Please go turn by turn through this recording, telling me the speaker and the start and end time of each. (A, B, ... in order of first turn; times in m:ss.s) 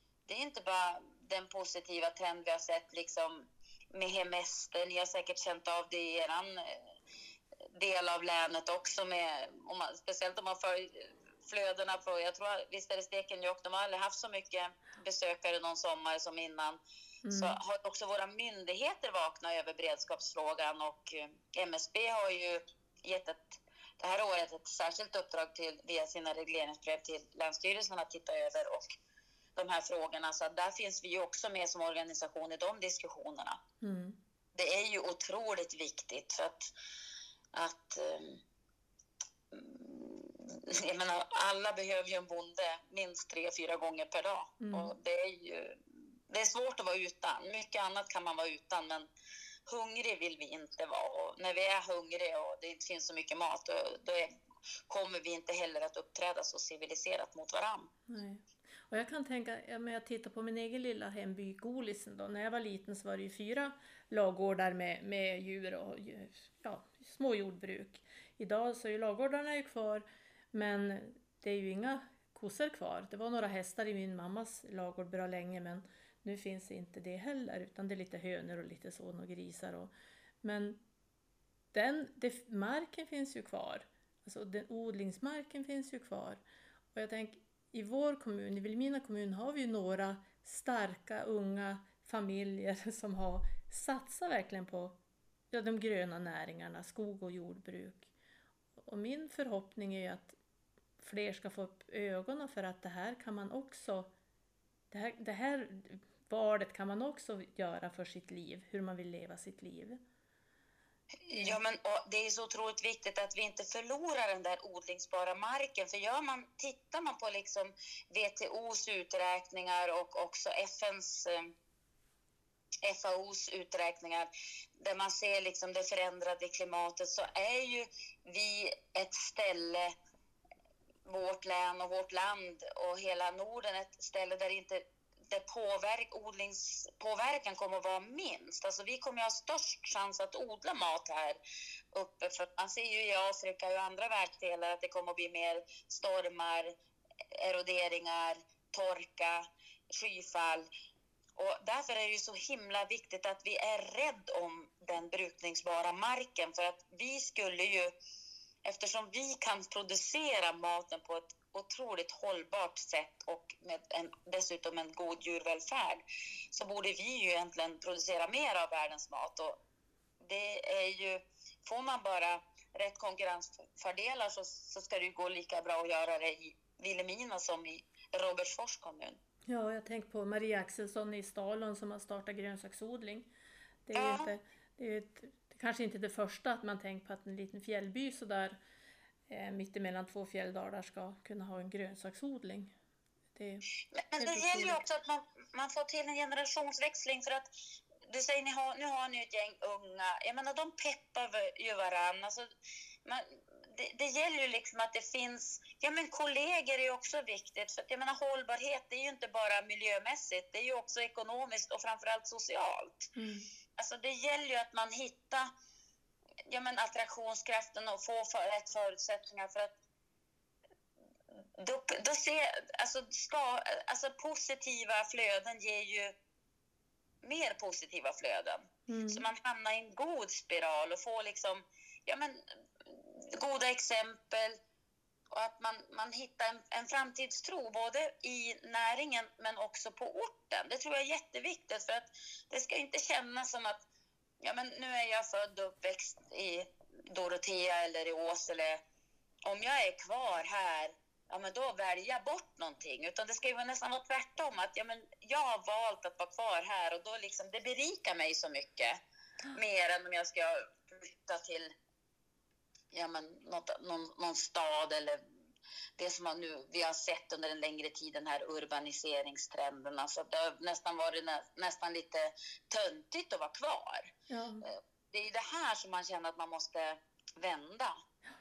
0:00.3-0:06.8 A
0:07.7-0:16.8 A
0:17.2-0:17.6 B
0:17.3-0:28.9 A
0:29.6-0:33.6 A
0:33.8-0:34.2 B
0:34.5-0:36.7 A
0:37.5-0:38.4 A
0:39.5-0:45.8 A
0:44.6-0:44.9 B
0:46.3-0:49.1 A
0:49.7-0:54.3 A
0:54.9-0:57.9 A
0:58.1-1:19.9 B
1:20.4-1:20.8 B
1:21.7-1:26.4 B
1:26.9-1:35.0 B
1:35.5-1:38.1 B
1:38.8-1:40.4 B
1:41.0-1:44.1 B
1:44.9-1:50.0 B
1:51.2-2:01.5 A
1:51.3-1:51.6 B
2:02.8-2:09.9 A
2:11.0-2:21.4 A
2:21.9-2:26.8 A
2:27.3-2:30.7 A
2:31.4-2:37.9 A
2:38.6-2:49.6 A
2:50.2-2:59.2 A
2:59.5-3:03.3 B
3:03.8-3:08.6 B
3:03.9-3:04.3 A
3:09.3-3:12.7 B
3:13.3-3:13.6 B
3:13.9-3:17.5 A
3:14.2-3:14.8 B
3:18.0-3:22.5 A
3:23.0-3:33.1 A
3:33.2-3:33.5 B
3:33.8-3:35.5 A
3:36.5-3:39.7 A
3:41.6-3:46.1 A
3:47.2-3:54.6 A
3:48.9-3:49.2 B
3:55.3-4:03.8 A
4:04.4-4:08.8 A
4:09.5-4:19.0 A
4:19.5-4:21.7 A
4:22.9-4:25.2 A
4:26.0-4:38.0 A
4:34.3-4:34.6 B